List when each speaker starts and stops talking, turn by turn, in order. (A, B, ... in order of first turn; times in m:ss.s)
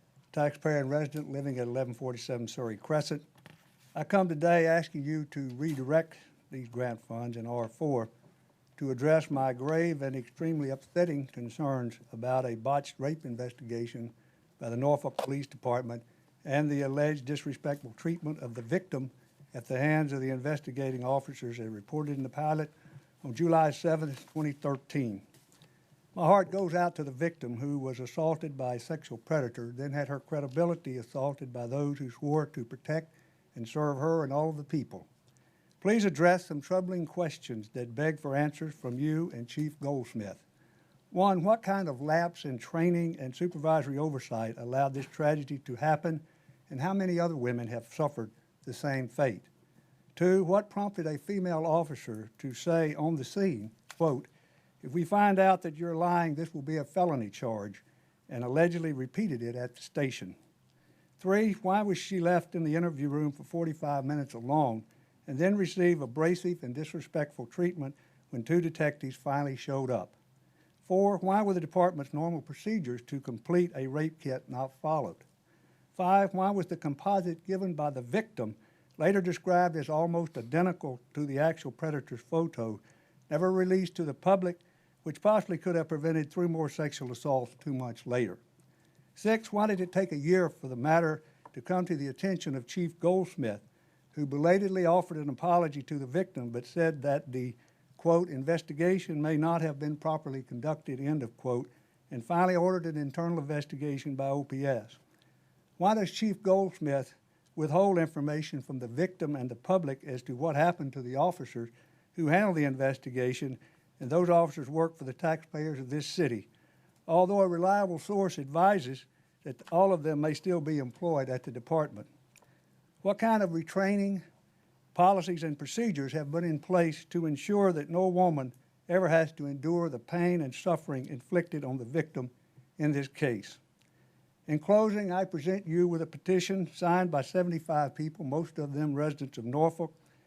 0:00.3-0:03.2 A
0:03.9-0:08.1 A
0:08.8-0:22.7 A
0:23.2-0:25.2 A
0:26.1-0:35.1 A
0:35.8-0:40.4 A
0:41.1-0:49.5 A
0:50.1-0:54.3 A
0:54.8-1:00.4 A
1:01.2-1:10.1 A
1:10.8-1:15.2 A
1:16.0-1:28.4 A
1:29.2-1:45.0 A
1:45.8-1:56.5 A
1:57.1-2:02.1 A
2:03.0-2:04.2 A
2:04.9-2:13.6 A
2:14.5-2:19.9 A